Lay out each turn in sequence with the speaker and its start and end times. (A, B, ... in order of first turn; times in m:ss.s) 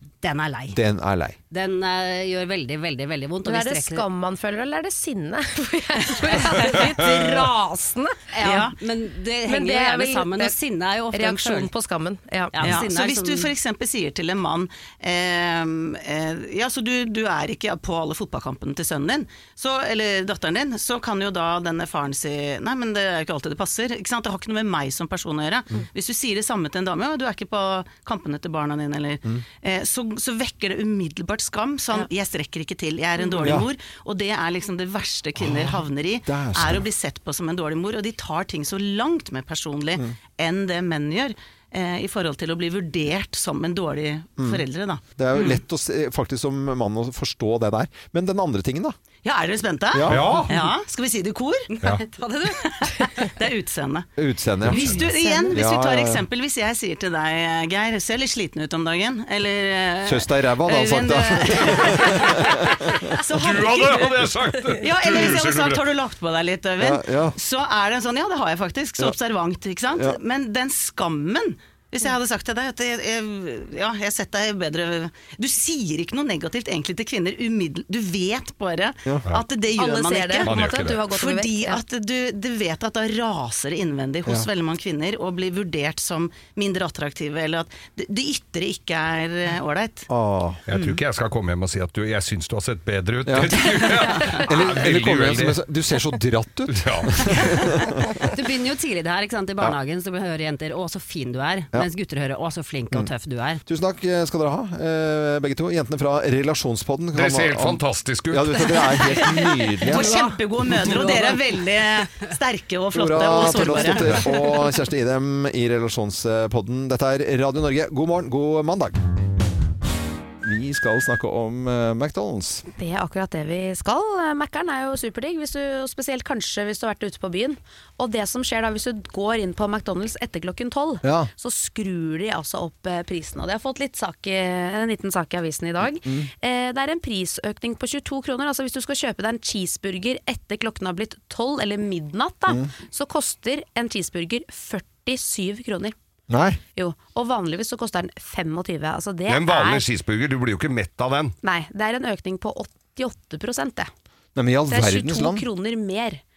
0:00.2-0:00.8 A
0:00.7-0:01.4 B
0:01.5-0:04.1 A
0:03.4-0:08.6 C
0:06.2-0:06.8 A
0:08.3-0:11.7 A
0:08.4-0:08.8 D
0:09.5-0:10.6 C
0:11.1-0:12.8 C
0:12.5-0:13.5 A
0:12.6-0:45.6 D
0:35.4-0:35.7 B
0:36.3-0:36.8 B
0:44.4-0:44.6 B
0:45.1-0:49.0 B
0:49.2-0:51.7 D
0:49.9-0:50.4 B
0:50.1-0:50.5 E
0:51.8-0:52.4 A
0:52.5-0:54.1 D
0:54.2-0:55.0 B
0:54.6-1:30.1 D
0:54.8-0:55.6 C
0:55.5-0:56.2 B
1:00.1-1:03.2 B
1:03.3-1:05.8 E
1:06.8-1:07.4 B
1:19.8-1:21.8 C
1:20.4-1:21.0 E
1:30.1-1:30.6 B
1:30.7-1:35.6 E
1:30.7-1:31.0 D
1:33.3-1:38.1 B
1:36.7-1:37.8 E
1:38.2-1:43.6 A
1:43.7-1:51.1 B
1:47.1-1:48.8 E
1:49.8-1:54.4 D
1:49.9-1:50.2 A
1:50.8-1:51.4 A
1:52.9-1:59.0 B
2:00.4-2:02.6 B
2:02.8-2:26.0 C
2:11.0-2:11.3 B
2:16.0-2:16.3 B
2:26.3-2:26.6 B
2:26.8-2:29.9 C
2:29.3-2:31.4 E
2:31.4-2:33.9 C
2:34.4-2:35.4 B
2:34.7-2:36.2 C